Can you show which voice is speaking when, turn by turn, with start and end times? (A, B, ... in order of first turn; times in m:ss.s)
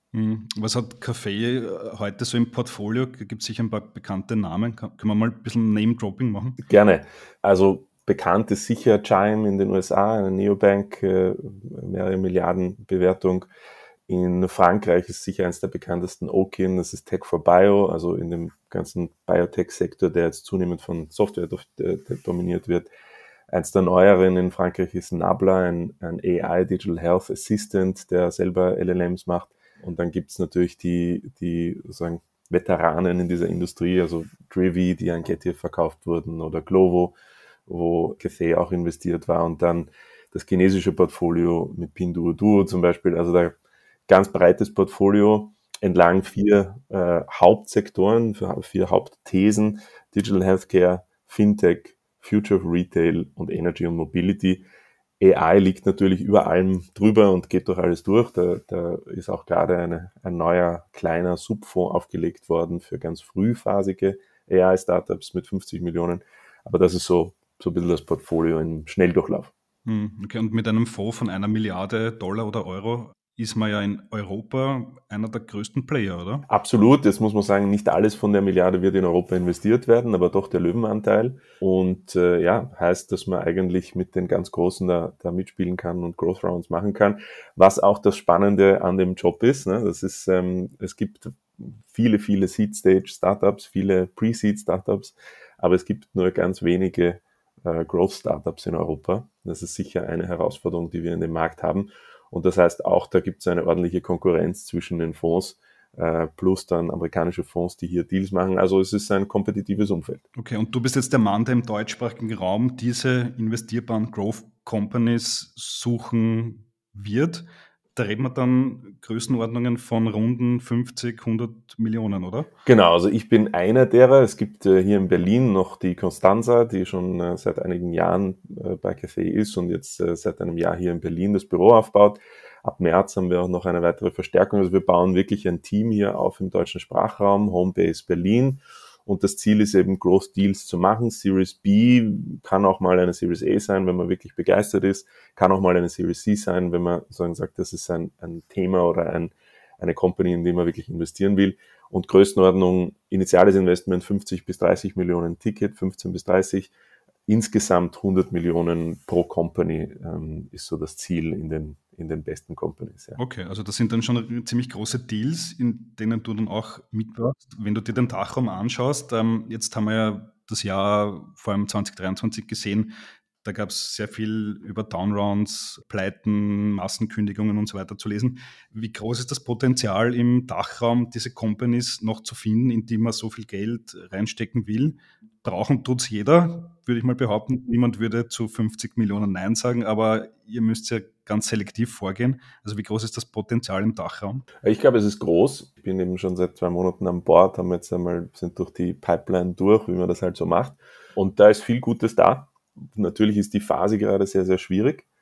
0:00.1-0:06.6 A
0:06.6-0:13.5 B
0:14.1-0:22.9 B
0:23.5-0:43.5 B
0:44.1-0:54.6 B
0:55.2-1:09.5 B
1:09.8-1:16.5 A
1:16.5-1:50.2 B
1:50.4-2:02.5 A
2:02.6-2:36.7 B
2:37.3-2:43.2 B
2:43.2-3:14.4 A
3:14.6-3:25.0 B